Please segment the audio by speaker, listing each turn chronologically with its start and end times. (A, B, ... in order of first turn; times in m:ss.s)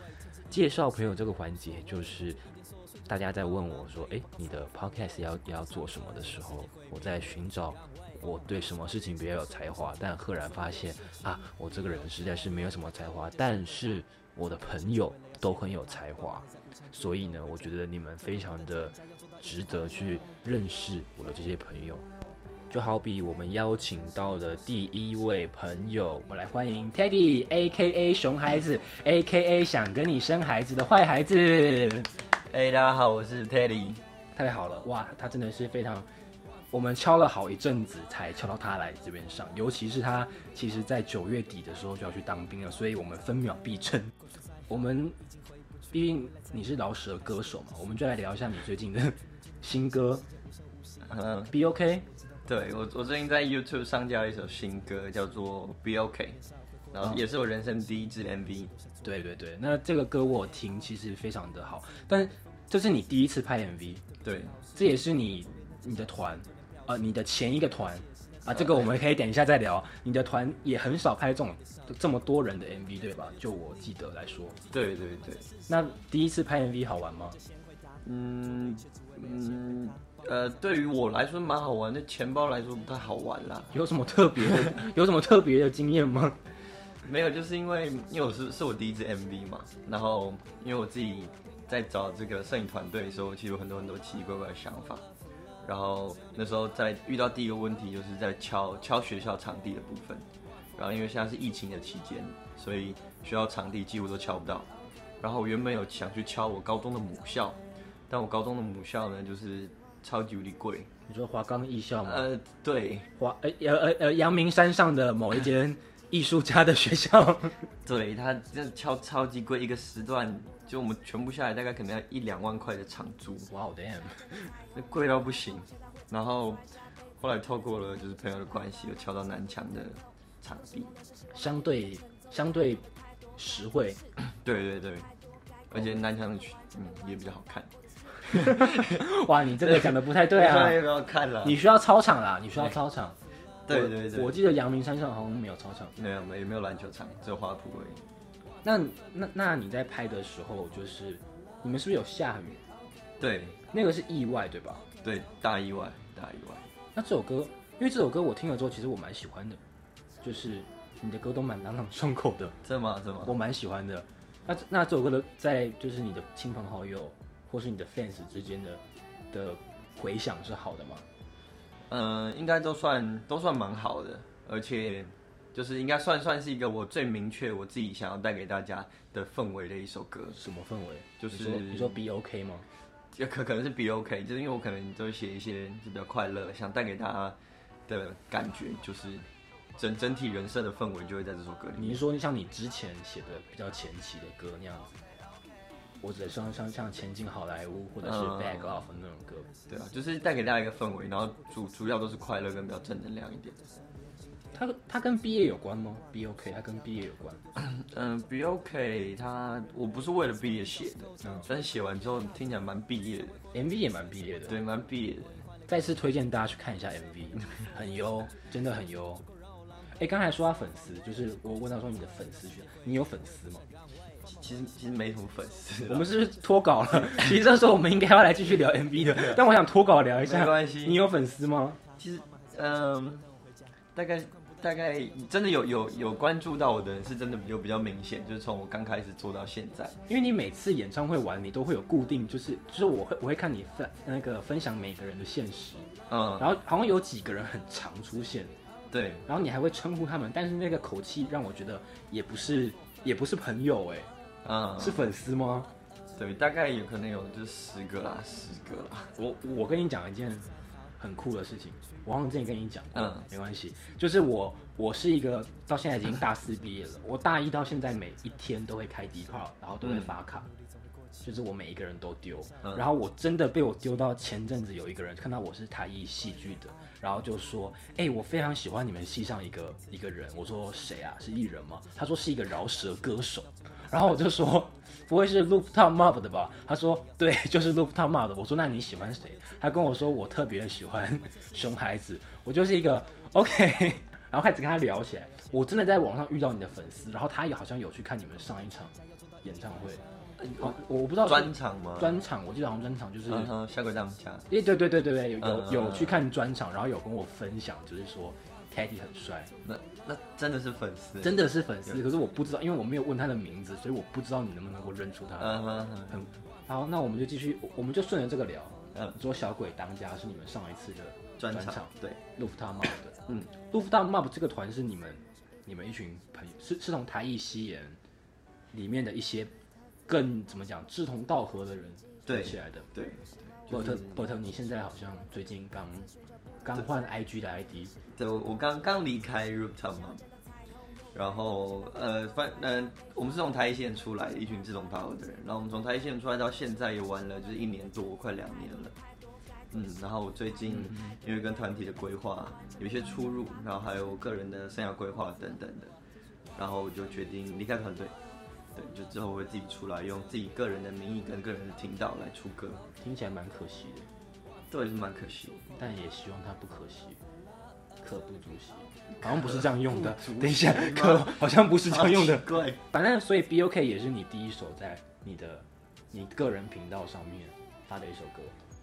0:00.5-0:02.4 A
0:03.1-0:22.0 A
0:22.7-0:32.1 A
0:32.5-0:34.0 B
0:34.4-0:36.1 A
0:36.7-0:44.1 A
0:44.7-0:45.2 A
0:45.9-0:50.2 A
0:51.0-0:51.5 B
0:51.5-0:52.0 A
0:52.5-0:56.4 B
0:56.9-0:58.7 B
0:59.0-1:04.0 A
1:04.2-1:04.6 B
1:04.7-1:14.6 A
1:08.5-1:08.8 B
1:14.7-1:15.5 B
1:15.7-1:17.4 A
1:18.0-1:23.7 B
1:23.7-1:26.4 A
1:27.0-1:35.0 B
1:35.6-1:44.7 B
1:45.2-1:50.9 B
1:51.1-1:52.3 A
1:52.0-1:53.1 B
1:53.2-1:57.7 A
1:57.8-2:03.5 B
2:03.5-2:04.5 A
2:04.7-2:06.6 B
2:07.2-2:10.9 B
2:11.3-2:12.8 A
2:13.4-2:14.0 A
2:14.2-2:15.1 B
2:15.7-2:19.0 B
2:18.6-2:20.8 A
2:19.6-2:21.6 B
2:21.4-2:23.2 A
2:23.7-2:24.4 B
2:23.7-2:26.0 A
2:26.0-2:28.0 B
2:28.6-2:32.6 A
2:33.2-2:33.6 B
2:33.7-2:34.8 A
2:35.0-2:36.7 B
2:37.0-2:39.6 A
2:40.2-2:42.6 A
2:42.6-2:43.4 B
2:43.2-2:48.8 A
2:49.3-2:51.1 A
2:51.9-3:00.4 B
3:00.3-3:02.6 A
3:01.2-3:02.0 B
3:03.1-3:12.0 B
3:11.8-3:14.9 A
3:16.0-3:19.5 A
3:18.0-3:18.8 B
3:19.7-3:23.6 B
3:24.5-3:27.4 A
3:27.6-3:33.4 B
3:33.5-3:34.6 A
3:34.5-3:35.4 B
3:35.7-3:39.2 A
3:40.0-3:43.6 A
3:44.2-3:46.1 B
3:45.9-3:51.8 A
3:47.0-3:47.4 B
3:49.0-3:49.4 B
3:50.2-3:51.0 B
3:52.0-3:53.3 B
3:54.0-4:00.0 B
4:00.1-4:08.5 A
4:06.1-4:06.5 B
4:08.9-4:09.3 B
4:09.3-4:14.1 A
4:14.4-4:15.0 B
4:14.8-4:15.7 A
4:16.2-4:19.1 B
4:19.2-4:20.5 A
4:21.0-4:30.5 A
4:23.0-4:23.2 B
4:29.8-4:30.1 B
4:31.2-5:00.0 A
5:00.4-5:02.2 B
5:00.6-5:03.5 A
5:03.3-5:04.5 B
5:04.5-5:09.5 A
5:05.4-5:06.2 B
5:09.6-5:12.0 B
5:11.2-5:28.0 A
5:15.4-5:16.2 B
5:21.4-5:22.2 B
5:23.3-5:23.5 B
5:28.7-5:29.5 A
5:30.1-5:32.9 A
5:32.3-5:34.3 B
5:33.7-5:36.1 A
5:36.6-5:37.9 A
5:38.1-5:40.2 B
5:41.1-5:49.0 B
5:49.7-5:55.9 B
5:50.9-5:51.2 A
5:56.6-5:58.1 B
5:58.8-6:02.9 B
6:03.0-6:04.1 A
6:04.7-6:05.7 B
6:05.8-6:07.2 A
6:08.0-6:18.6 A
6:09.3-6:12.8 B